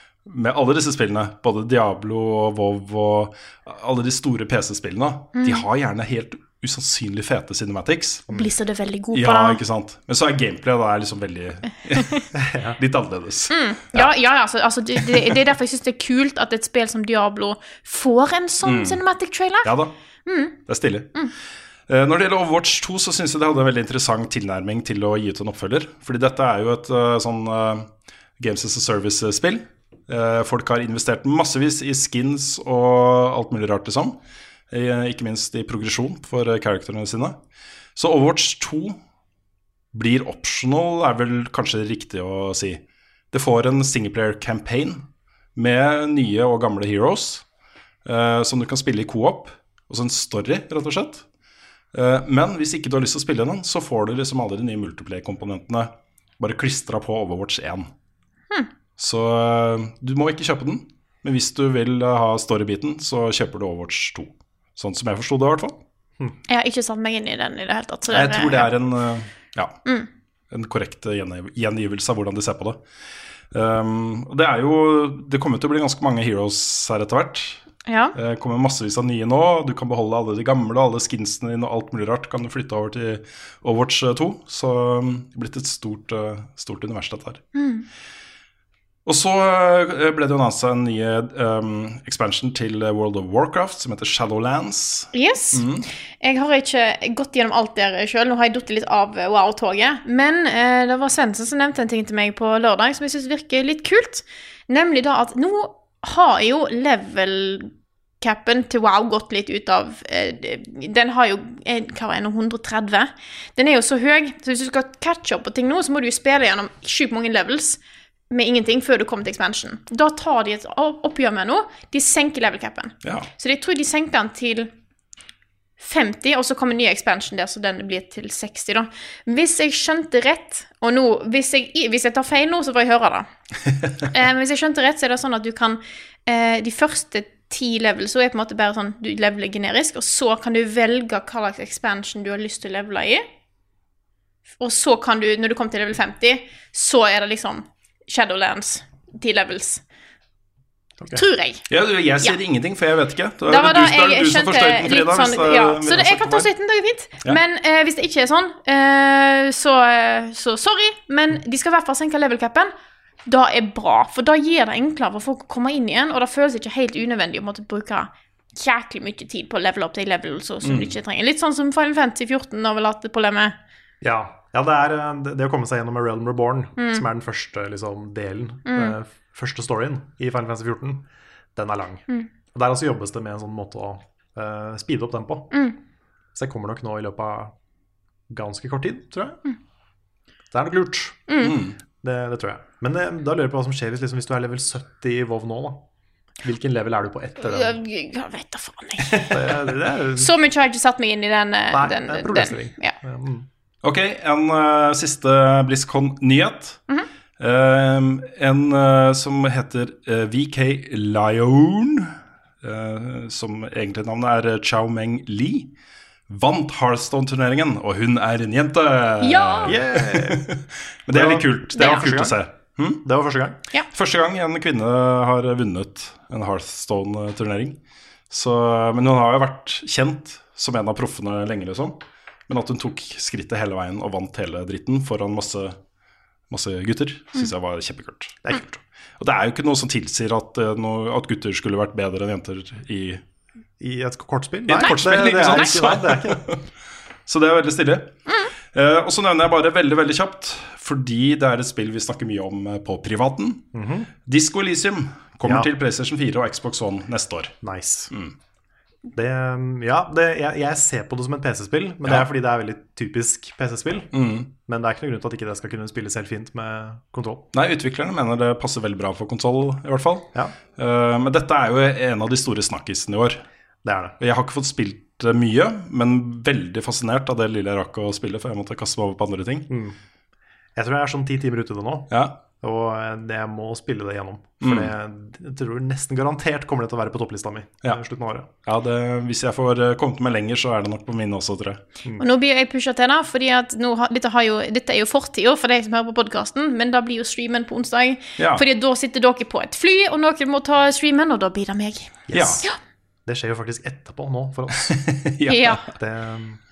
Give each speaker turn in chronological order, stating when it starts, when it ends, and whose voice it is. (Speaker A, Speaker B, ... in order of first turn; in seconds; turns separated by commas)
Speaker A: 0.3-8.3, Speaker B: 5.4-5.6, Speaker B: 8.3-9.6, Speaker A: 9.1-14.1, Speaker C: 12.3-12.8, Speaker B: 13.5-19.7, Speaker A: 15.1-15.4, Speaker A: 18.6-19.0, Speaker A: 19.6-19.9, Speaker B: 20.3-20.6, Speaker A: 20.7-21.1, Speaker A: 21.9-27.9, Speaker A: 28.4-34.2, Speaker A: 34.7-37.4, Speaker A: 38.0-39.0, Speaker A: 39.9-45.0, Speaker A: 45.5-47.5, Speaker A: 48.0-51.2, Speaker A: 51.9-57.9, Speaker A: 59.0-65.8, Speaker B: 66.5-68.7, Speaker A: 68.1-69.8, Speaker A: 70.5-72.8, Speaker A: 73.5-77.6, Speaker B: 77.9-78.1, Speaker A: 78.1-87.4, Speaker B: 87.5-87.9, Speaker A: 89.0-95.9, Speaker B: 95.1-95.7, Speaker B: 96.2-117.8, Speaker B: 118.3-124.7, Speaker A: 123.0-123.3, Speaker B: 125.8-133.3, Speaker B: 134.0-143.2, Speaker B: 144.6-149.8, Speaker B: 151.1-151.7, Speaker A: 151.7-156.5, Speaker B: 153.5-162.7, Speaker B: 163.3-173.6, Speaker A: 170.6-170.9, Speaker C: 174.0-185.5, Speaker B: 176.8-177.0, Speaker B: 178.7-178.9, Speaker B: 185.5-185.8, Speaker C: 186.3-187.5, Speaker C: 188.3-189.4, Speaker C: 190.5-191.3, Speaker B: 191.3-191.6, Speaker A: 191.4-191.8, Speaker C: 192.0-195.8, Speaker C: 196.4-197.8, Speaker B: 197.4-199.3, Speaker A: 199.1-199.6, Speaker C: 199.3-200.3, Speaker B: 200.2-202.9, Speaker C: 201.7-203.4, Speaker A: 203.8-206.8, Speaker A: 207.4-215.7, Speaker A: 216.3-223.0, Speaker B: 219.2-219.7, Speaker C: 219.6-220.4, Speaker C: 221.1-222.4, Speaker B: 221.7-222.1, Speaker C: 223.0-223.6, Speaker A: 223.9-227.8, Speaker A: 228.3-235.8, Speaker A: 236.5-238.6, Speaker C: 238.4-238.8, Speaker A: 239.2-243.2, Speaker C: 243.8-246.4, Speaker A: 244.7-246.6, Speaker A: 247.3-248.2, Speaker A: 248.7-253.7, Speaker C: 253.7-254.1, Speaker A: 254.3-257.6, Speaker C: 255.4-255.7, Speaker C: 257.6-258.1, Speaker C: 259.1-267.5, Speaker A: 264.1-264.5, Speaker A: 267.5-273.4, Speaker C: 273.8-274.2, Speaker A: 274.2-279.7, Speaker C: 279.7-280.0, Speaker C: 280.8-288.5, Speaker A: 282.1-282.4, Speaker A: 284.6-284.9, Speaker A: 288.6-291.8, Speaker B: 292.2-302.8, Speaker A: 298.4-298.6, Speaker C: 302.3-302.6, Speaker A: 302.3-302.6, Speaker C: 303.3-304.9, Speaker A: 304.8-305.9, Speaker B: 305.5-305.8, Speaker C: 305.9-306.6